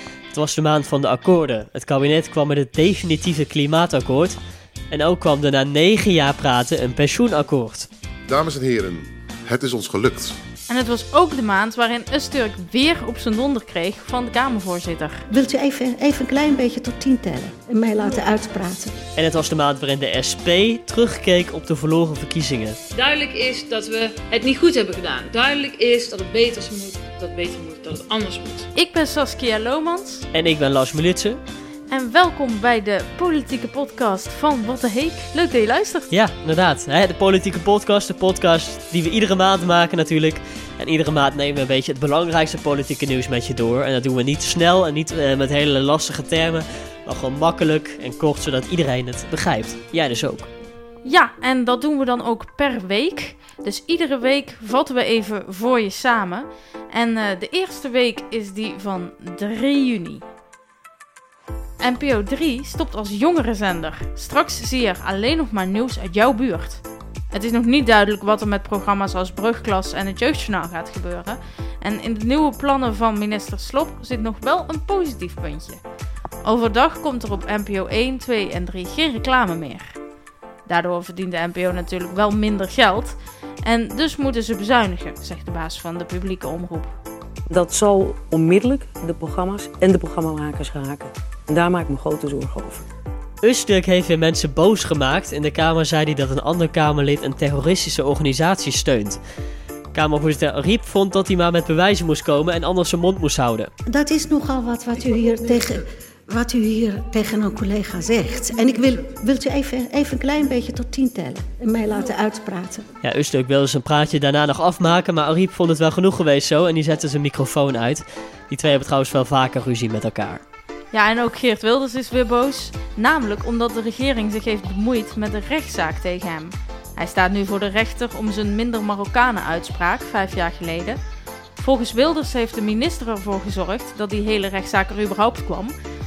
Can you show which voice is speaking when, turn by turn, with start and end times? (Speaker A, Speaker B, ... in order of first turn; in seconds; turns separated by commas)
Speaker A: 0.3-4.4, Speaker A: 4.9-7.9, Speaker B: 8.3-10.3, Speaker C: 10.7-15.2, Speaker D: 15.3-19.0, Speaker A: 19.2-22.8, Speaker E: 22.9-28.7, Speaker C: 28.8-30.3, Speaker A: 30.3-31.4, Speaker C: 31.9-36.1, Speaker A: 36.1-50.5, Speaker C: 51.0-60.2, Speaker C: 61.8-75.8, Speaker C: 76.4-79.9, Speaker C: 80.7-86.9, Speaker F: 87.5-92.8, Speaker A: 93.4-99.2, Speaker A: 99.9-103.7, Speaker D: 103.9-112.9, Speaker A: 113.0-120.4, Speaker C: 120.9-131.0, Speaker C: 131.6-135.7